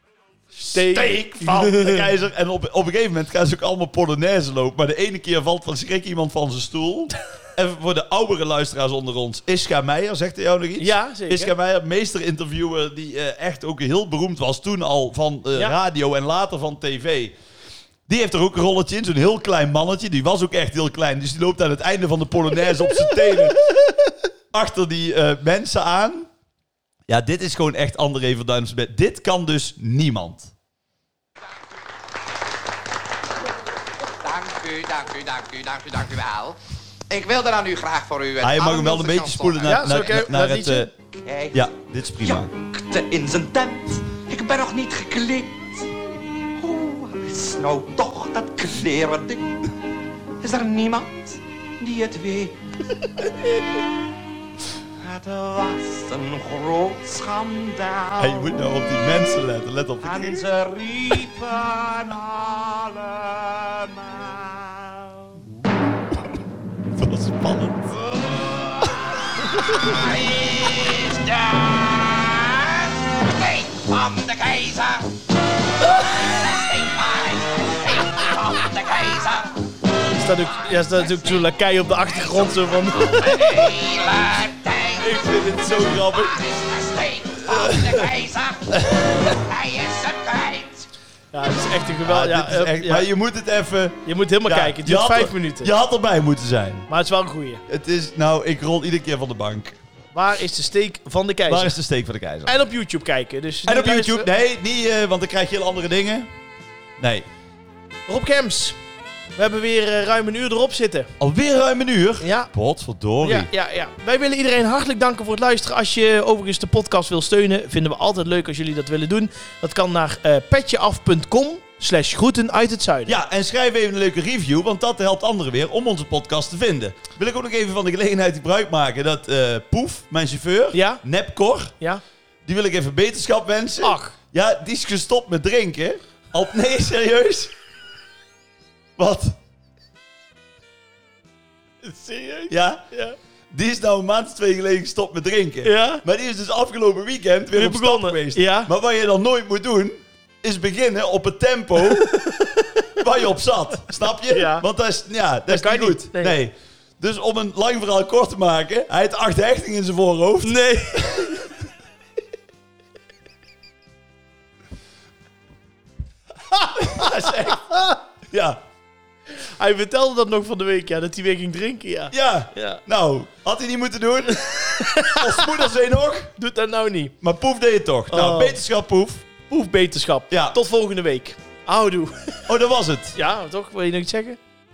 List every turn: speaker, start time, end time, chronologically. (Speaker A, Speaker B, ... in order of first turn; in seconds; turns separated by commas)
Speaker A: 0.5-17.4, Speaker B: 0.7-2.1, Speaker B: 10.8-11.5, Speaker A: 18.1-23.6, Speaker A: 24.5-26.3, Speaker A: 27.1-30.5, Speaker C: 34.2-36.6, Speaker C: 37.1-40.0, Speaker A: 38.4-40.9, Speaker B: 39.6-40.9, Speaker C: 41.1-41.6, Speaker A: 41.5-42.5, Speaker C: 42.2-46.0, Speaker C: 46.6-49.7, Speaker C: 50.4-52.6, Speaker C: 53.2-53.8, Speaker C: 55.0-58.5, Speaker A: 58.2-60.5, Speaker C: 60.0-65.5, Speaker A: 67.0-70.1, Speaker C: 68.3-68.9, Speaker C: 69.5-75.3, Speaker C: 75.8-79.7, Speaker B: 80.1-83.7, Speaker C: 80.6-81.5, Speaker C: 82.0-82.5, Speaker C: 83.1-90.9, Speaker A: 85.0-86.4, Speaker A: 87.4-88.0, Speaker A: 88.7-89.3, Speaker B: 91.3-93.1, Speaker A: 92.0-96.9, Speaker B: 94.0-95.7, Speaker B: 96.9-97.6, Speaker A: 97.7-99.8, Speaker B: 100.1-101.8, Speaker A: 101.5-102.6, Speaker B: 102.4-104.3, Speaker A: 103.6-106.3, Speaker A: 107.0-107.3, Speaker B: 108.1-108.8, Speaker B: 109.3-111.1, Speaker A: 111.2-113.5, Speaker B: 112.2-112.5, Speaker B: 113.2-123.2, Speaker A: 123.1-131.7, Speaker B: 130.7-131.0, Speaker A: 132.4-137.5, Speaker B: 133.8-134.1, Speaker A: 139.0-139.4, Speaker B: 141.8-143.2, Speaker A: 142.5-142.8, Speaker A: 143.5-152.2, Speaker B: 145.6-146.0, Speaker B: 147.5-148.7, Speaker B: 151.8-153.0, Speaker A: 153.0-161.4, Speaker B: 154.1-154.7, Speaker B: 155.5-156.4, Speaker B: 160.4-161.5, Speaker B: 166.5-168.0, Speaker A: 166.8-167.7, Speaker A: 168.3-168.6, Speaker B: 169.3-172.8, Speaker A: 172.1-176.3, Speaker B: 174.3-175.5, Speaker B: 176.4-177.1, Speaker A: 177.2-179.2, Speaker B: 178.1-178.6, Speaker B: 179.5-182.5, Speaker A: 180.3-180.6, Speaker A: 182.5-183.2, Speaker B: 183.1-184.4